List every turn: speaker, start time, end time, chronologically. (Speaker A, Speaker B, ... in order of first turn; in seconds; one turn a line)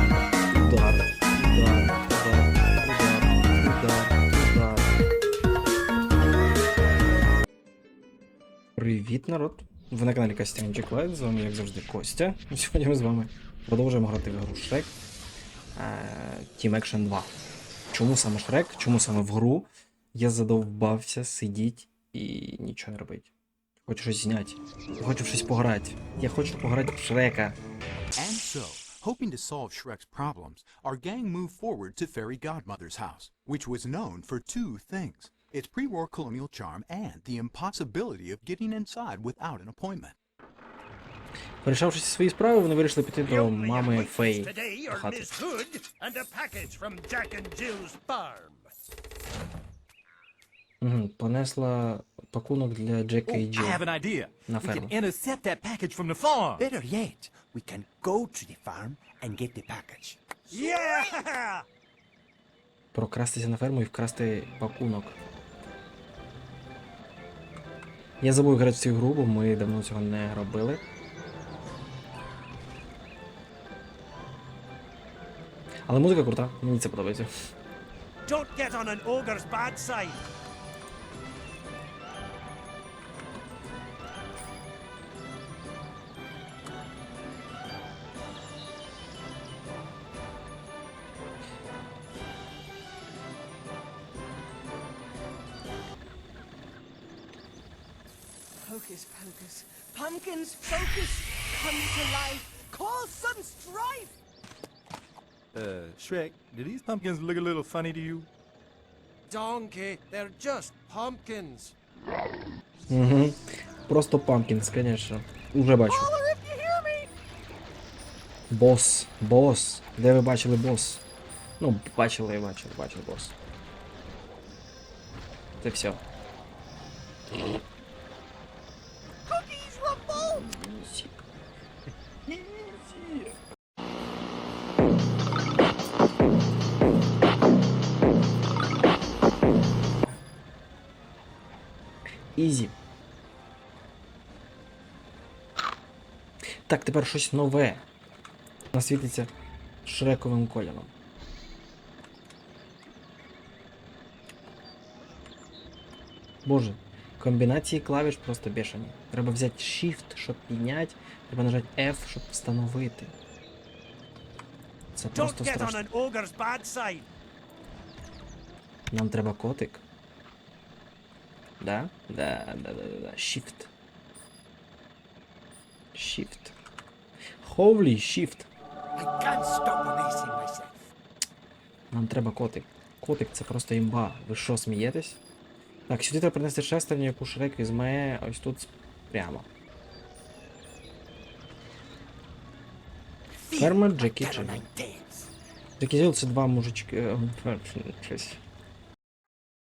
Speaker A: 0.5-4.9
Speaker A: 8.8-14.9
Speaker A: 15.8-17.3
Speaker A: 17.9-23.3
Speaker A: 23.9-27.6
Speaker B: 28.1-40.2
Speaker A: 41.6-45.3
Speaker C: 43.2-48.7
Speaker A: 50.8-53.8
Speaker D: 53.3-56.6
Speaker A: 54.5-55.0
Speaker E: 56.6-60.2
Speaker C: 60.5-61.6
Speaker A: 62.9-65.2
Speaker A: 68.2-70.8
Speaker A: 75.9-77.3
Speaker C: 78.3-80.2
Speaker F: 98.6-104.1
Speaker D: 105.5-108.3
Speaker C: 109.3-111.7
Speaker A: 112.9-116.1
Speaker F: 115.9-117.1
Speaker A: 118.5-121.0
Speaker A: 121.6-123.3
Speaker A: 125.6-126.0
Speaker F: 129.3-130.4
Speaker A: 130.3-131.1
Speaker A: 132.3-133.3
Speaker A: 142.4-142.7
Speaker A: 146.7-147.8
Speaker A: 148.7-149.3
Speaker A: 149.8-150.9
Speaker A: 156.4-163.1
Speaker A: 164.9-165.8
Speaker C: 165.1-167.1
Speaker A: 168.9-169.8
Speaker A: 171.6-173.7
Speaker A: 175.9-176.6
Speaker A: 177.4-178.5
Speaker E: 179.0-180.8
Speaker A: 181.9-185.2
Speaker A: 185.9-189.5
Speaker E: 193.4-195.3
Speaker A: 193.6-194.7
Speaker A: 195.8-198.4